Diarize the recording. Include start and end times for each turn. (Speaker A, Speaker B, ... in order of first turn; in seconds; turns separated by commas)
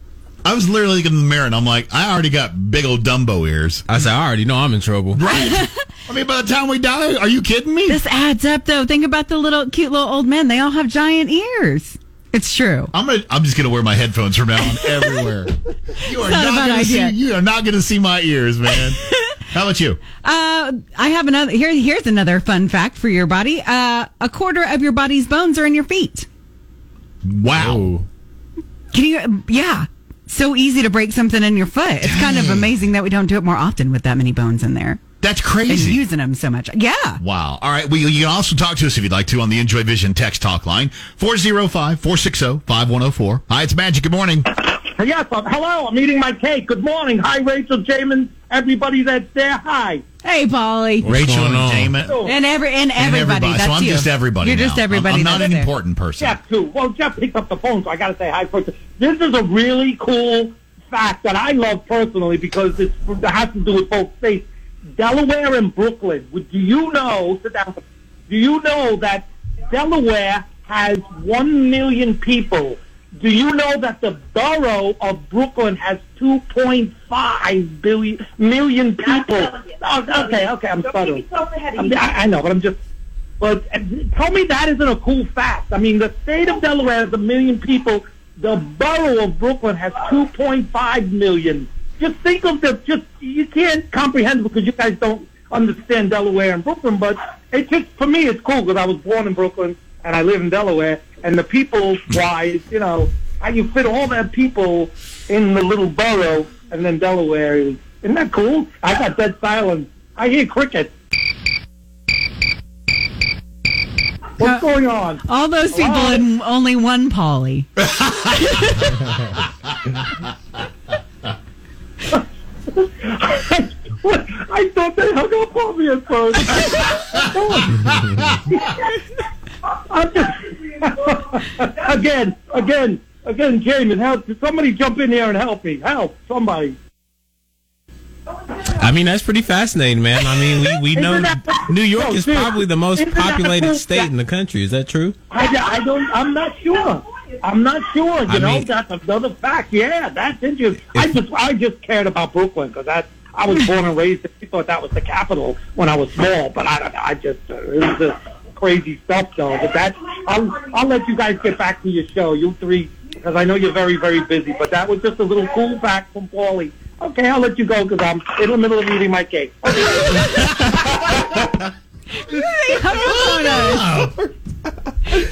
Speaker A: 0.4-3.8, Speaker B: 3.9-5.2, Speaker A: 5.1-8.0, Speaker C: 5.3-5.6, Speaker C: 7.9-12.9, Speaker A: 12.9-19.0, Speaker C: 16.0-17.2, Speaker A: 19.5-20.0, Speaker C: 20.2-26.3, Speaker A: 27.2-27.9, Speaker B: 27.5-28.0, Speaker C: 28.9-35.0, Speaker A: 32.0-32.7, Speaker A: 35.2-36.0, Speaker C: 35.7-37.2, Speaker A: 37.2-44.5, Speaker D: 44.8-50.0, Speaker C: 50.2-51.1, Speaker B: 51.0-52.0, Speaker A: 51.0-52.1, Speaker D: 52.0-52.3, Speaker C: 52.2-55.7, Speaker A: 53.0-56.4, Speaker D: 56.2-82.8, Speaker D: 83.4-110.9, Speaker D: 114.4-116.2, Speaker C: 114.4-114.7, Speaker C: 115.2-117.7, Speaker C: 118.2-119.0, Speaker D: 122.8-127.8, Speaker D: 128.5-128.8, Speaker D: 129.9-136.8, Speaker B: 138.6-145.2, Speaker D: 140.9-144.1, Speaker D: 145.3-171.4, Speaker B: 148.3-148.7, Speaker B: 150.9-151.2, Speaker C: 172.2-173.9, Speaker A: 172.7-174.3